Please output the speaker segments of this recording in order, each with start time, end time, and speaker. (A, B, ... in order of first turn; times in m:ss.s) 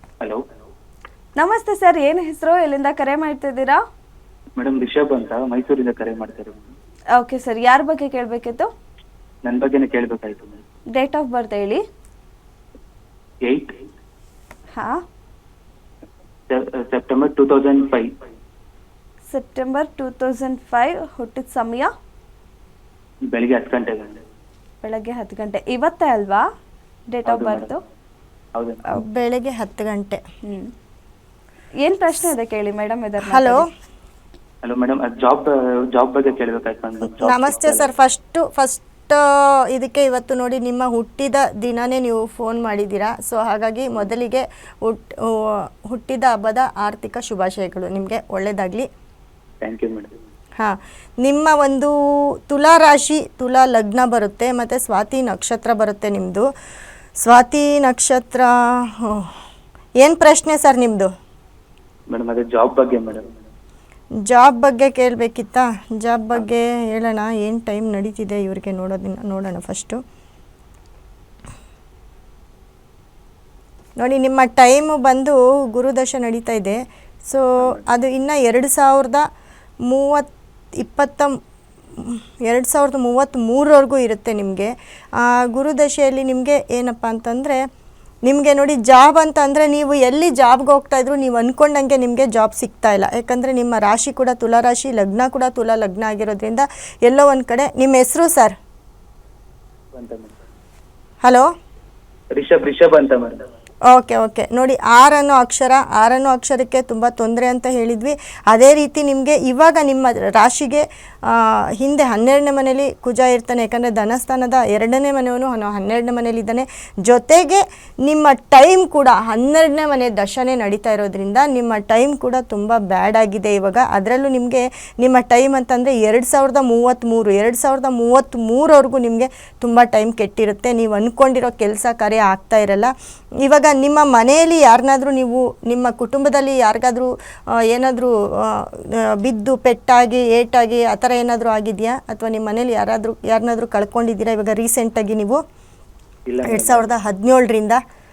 0:01.4-0:03.8 A
0:04.6-0:06.6 B
0:07.2-0:08.7 A
0:09.4-0:10.6 B
0:10.9-0:11.8 A
0:13.4-0:13.7 B
0:14.8-0:15.0 A
0:16.5-0:18.1 B
0:19.3-0:21.9 A
0:23.3-0:24.2 B
0:24.8-0:26.4 A
0:27.1-0:27.8 A
0:27.2-0:27.7 B
0:28.5-0:28.8 B
0:28.9-0:30.2 C
0:30.4-0:30.7 A
0:31.8-0:33.6 A
0:33.2-0:33.7 C
0:34.6-0:37.9 B
0:37.2-0:48.9 C
0:49.6-0:50.1 B
0:50.6-0:51.9 C
0:52.5-0:56.5 C
0:57.2-0:59.3 C
1:00.0-1:01.1 C
1:02.1-1:03.2 B
1:04.2-1:10.0 C
1:14.0-1:19.2 C
1:19.9-1:21.3 C
1:22.0-1:27.6 C
1:28.3-1:38.5 C
1:39.9-1:40.3 B
1:42.3-1:43.4 B
1:43.9-2:12.9 C
2:13.4-2:17.1 C
2:17.6-2:25.4 C
2:26.2-2:26.9 B
2:26.4-2:27.8 C